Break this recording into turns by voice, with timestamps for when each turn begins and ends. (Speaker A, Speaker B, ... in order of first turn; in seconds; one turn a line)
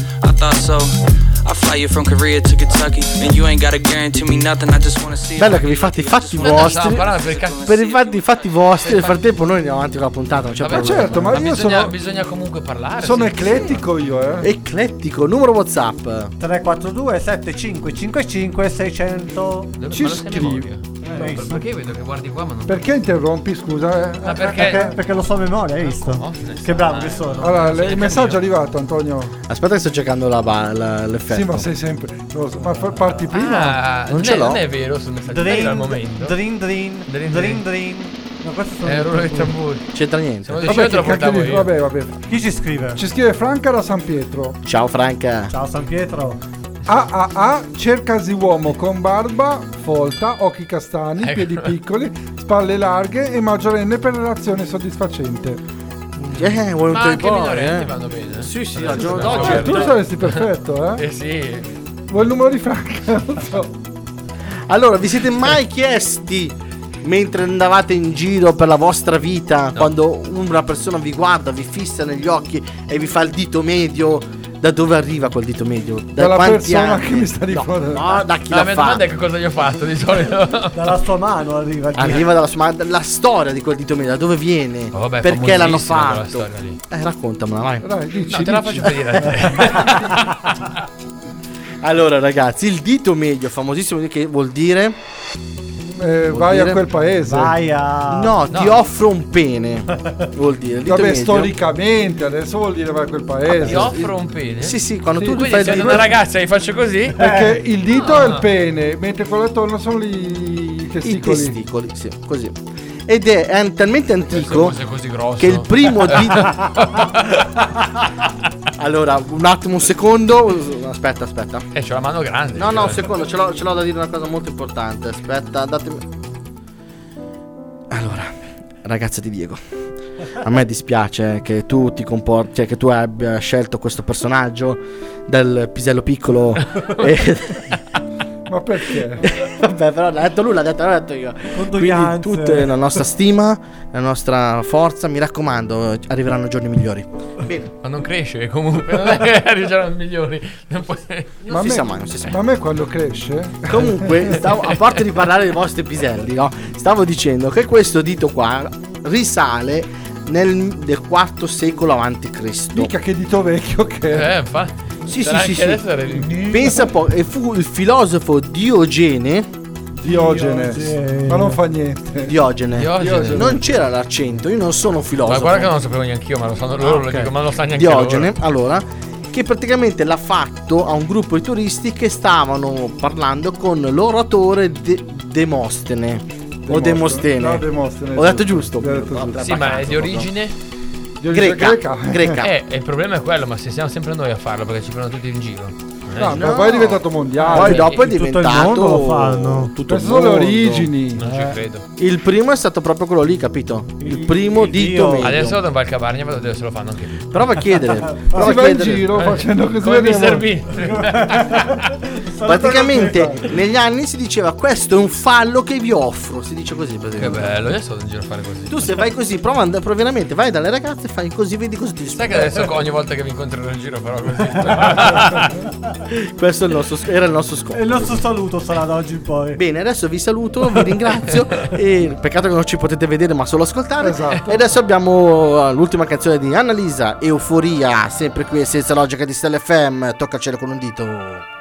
Speaker A: 0.2-8.6
Speaker B: 5.4-11.4
Speaker C: 6.4-7.9
Speaker C: 8.6-9.3
Speaker C: 10.6-13.8
Speaker D: 10.7-12.0
Speaker D: 13.0-14.5
Speaker B: 14.4-16.3
Speaker E: 16.4-19.8
Speaker C: 19.8-22.8
Speaker D: 19.9-20.7
Speaker E: 21.1-21.7
Speaker D: 22.7-24.9
Speaker C: 24.2-24.9
Speaker E: 24.5-27.6
Speaker C: 25.8-28.5
Speaker D: 27.4-29.4
Speaker B: 29.5-31.7
Speaker D: 31.3-33.8
Speaker C: 33.3-36.4
Speaker B: 34.1-34.6
Speaker E: 35.3-39.6
Speaker C: 37.1-37.6
Speaker C: 38.9-39.9
Speaker B: 39.9-40.8
Speaker C: 40.5-41.8
Speaker D: 40.6-42.2
Speaker E: 42.3-43.0
Speaker D: 43.0-44.6
Speaker B: 44.6-45.5
Speaker E: 45.5-46.4
Speaker D: 46.9-55.6
Speaker C: 51.2-51.7
Speaker B: 56.2-60.0
Speaker C: 56.9-61.7
Speaker D: 58.9-61.0
Speaker D: 62.1-63.7
Speaker B: 64.7-79.0
Speaker D: 76.2-78.2
Speaker C: 78.5-80.8
Speaker E: 80.7-82.3
Speaker B: 82.0-87.9
Speaker C: 84.9-86.8
Speaker D: 87.8-90.0
Speaker C: 88.2-90.7
Speaker B: 89.2-89.9
Speaker B: 91.8-95.0
Speaker D: 96.0-97.6
Speaker B: 96.3-96.8
Speaker E: 97.3-98.4
Speaker B: 98.1-101.6
Speaker C: 98.5-98.9
Speaker D: 100.9-104.1
Speaker B: 103.5-104.0
Speaker C: 103.5-107.2
Speaker B: 104.6-106.1
Speaker D: 105.2-106.2
Speaker E: 107.2-107.6
Speaker D: 107.2-111.5
Speaker C: 107.9-108.5
Speaker B: 111.0-112.5
Speaker B: 113.1-114.8
Speaker C: 114.3-117.9
Speaker B: 115.4-116.7
Speaker B: 118.8-121.7
Speaker C: 121.7-123.1
Speaker B: 122.5-126.1
Speaker B: 127.9-128.3
Speaker B: 128.8-129.6
Speaker B: 130.4-137.7
Speaker D: 138.5-139.3
Speaker B: 139.2-147.7
Speaker E: 141.5-142.7
Speaker C: 147.8-151.4
Speaker D: 151.5-154.4
Speaker B: 151.5-152.4
Speaker B: 153.7-162.9
Speaker D: 162.8-164.3
Speaker C: 164.1-166.7
Speaker B: 165.1-169.5
Speaker D: 170.0-172.4
Speaker E: 170.0-171.6
Speaker B: 172.2-175.7
Speaker C: 172.8-173.5
Speaker D: 173.0-173.6
Speaker C: 175.2-178.4
Speaker B: 176.8-190.3
Speaker D: 186.7-189.4
Speaker C: 189.4-190.6
Speaker D: 191.2-192.4
Speaker B: 191.3-192.5
Speaker C: 192.4-196.5
Speaker D: 196.2-197.9
Speaker B: 196.2-200.9
Speaker E: 197.4-199.7
Speaker C: 197.6-198.0
Speaker D: 199.9-201.6
Speaker C: 201.2-201.9
Speaker B: 202.0-205.6
Speaker E: 204.0-205.3
Speaker C: 205.2-207.7
Speaker B: 207.3-209.2
Speaker E: 208.1-208.4
Speaker D: 208.3-210.6
Speaker C: 209.1-211.9
Speaker E: 210.7-213.5
Speaker B: 212.4-217.5
Speaker C: 217.2-218.8
Speaker B: 218.7-222.7
Speaker C: 222.1-225.6
Speaker B: 226.1-228.2
Speaker E: 227.7-229.6
Speaker B: 229.6-241.4
Speaker D: 234.0-234.6